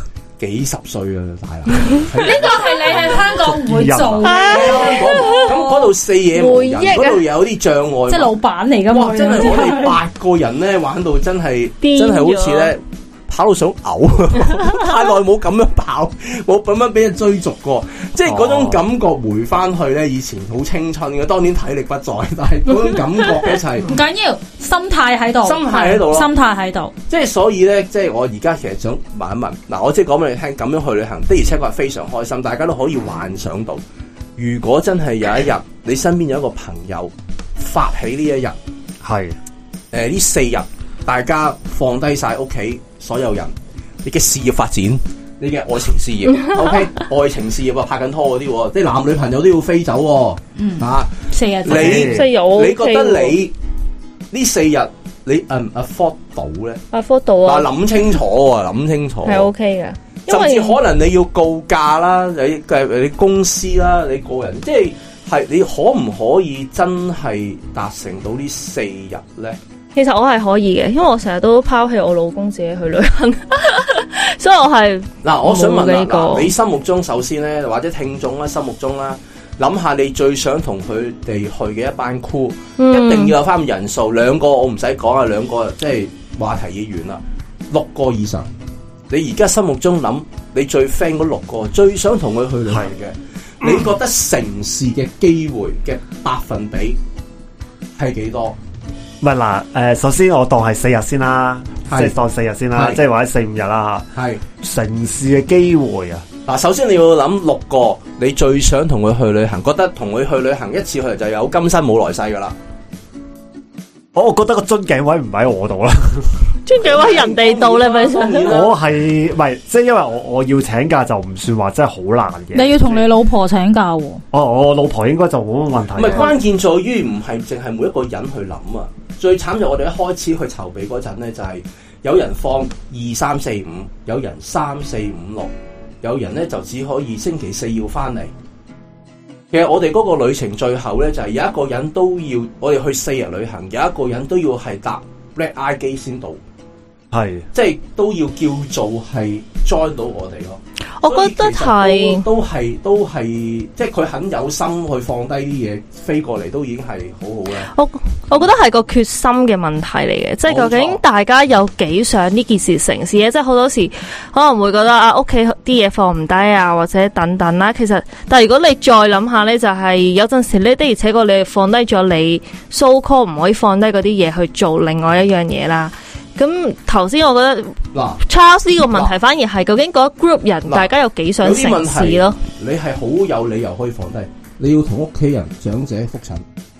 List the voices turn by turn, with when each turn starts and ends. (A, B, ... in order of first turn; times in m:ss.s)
0:00.4-0:03.5 A
0:02.2-0:05.5 B
0:03.4-0:04.4 C
0:04.2-0:05.8 D
0:04.4-0:08.3 A
0:06.3-0:07.2 D
0:08.1-0:10.0 B
0:08.9-0:23.9 A
0:11.8-0:12.7 D
0:14.5-0:14.9 D
0:18.3-0:18.8 C
0:23.9-0:26.9 B
0:25.4-0:26.3 A
0:27.1-0:33.8 A
0:34.4-0:38.6 A
0:39.0-0:39.4 C
0:39.9-0:53.5 A
0:50.6-0:52.1 B
0:51.7-0:52.3 C
0:51.7-0:53.4 D
0:54.3-0:56.8 A
0:56.9-0:57.7 D
0:57.4-0:59.5 A
0:59.2-1:00.8 D
1:00.3-1:09.6 A
1:10.0-1:16.5 D
1:15.2-1:27.2 A
1:22.8-1:23.3 D
1:27.7-1:28.5 A
1:29.1-1:37.0 A
1:38.0-1:38.6 A
1:39.2-1:44.0 C
1:41.9-1:42.1 A
1:42.8-1:43.0 A
1:44.2-1:44.4 A
1:44.6-1:46.2 C
1:46.5-1:52.6 A
1:54.1-1:56.4 C
1:56.7-1:58.6 D
1:56.8-1:58.8 A
1:58.4-2:03.1 C
2:02.5-2:04.2 B
2:04.3-2:06.4 C
2:06.0-2:18.3 A
2:19.5-2:26.4 A
2:27.1-2:27.5 C
2:27.5-2:37.7 A
2:31.0-2:32.2 D
2:37.7-3:02.4 D
2:40.4-2:41.0 A
2:57.9-2:58.2 A
2:58.8-2:59.2 A
3:01.4-3:06.4 A